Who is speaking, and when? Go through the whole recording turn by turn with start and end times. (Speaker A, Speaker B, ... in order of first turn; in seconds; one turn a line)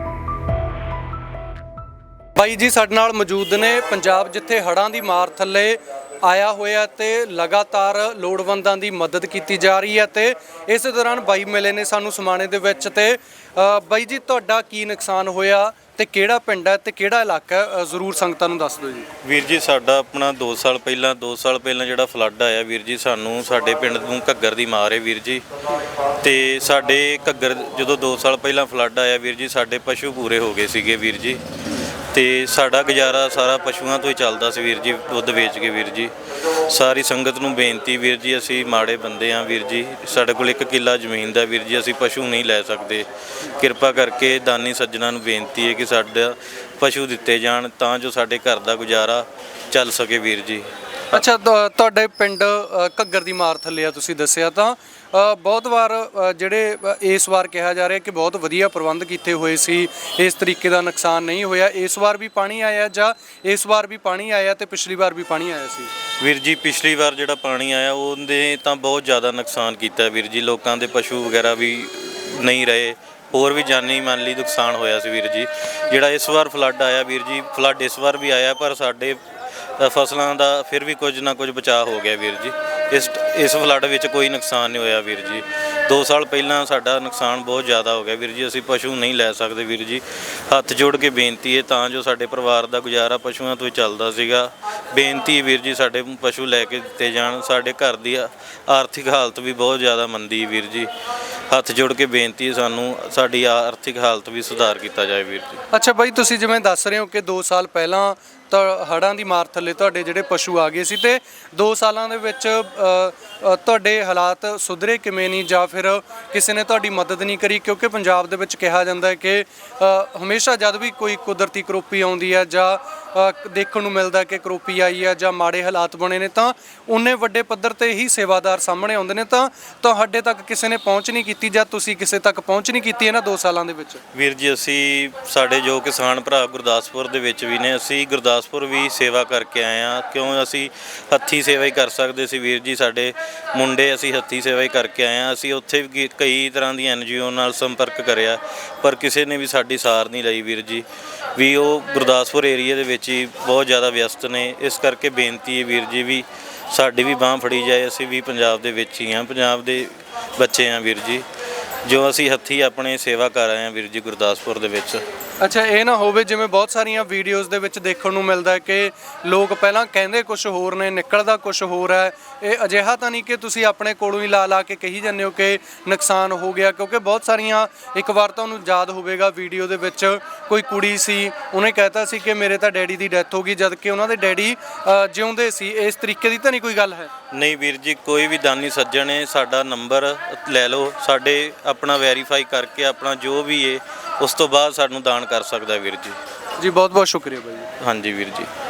Speaker A: 2.4-19.1
Speaker B: 19.2-51.2
Speaker A: 51.1-65.9
Speaker B: 66.2-100.9
Speaker B: 101.5-105.6
Speaker A: 105.7-134.0
Speaker B: 134.1-161.2
Speaker B: 161.8-165.0
Speaker A: 165.4-187.1
Speaker B: 187.3-196.2
Speaker A: 196.6-197.7
Speaker B: 197.8-198.5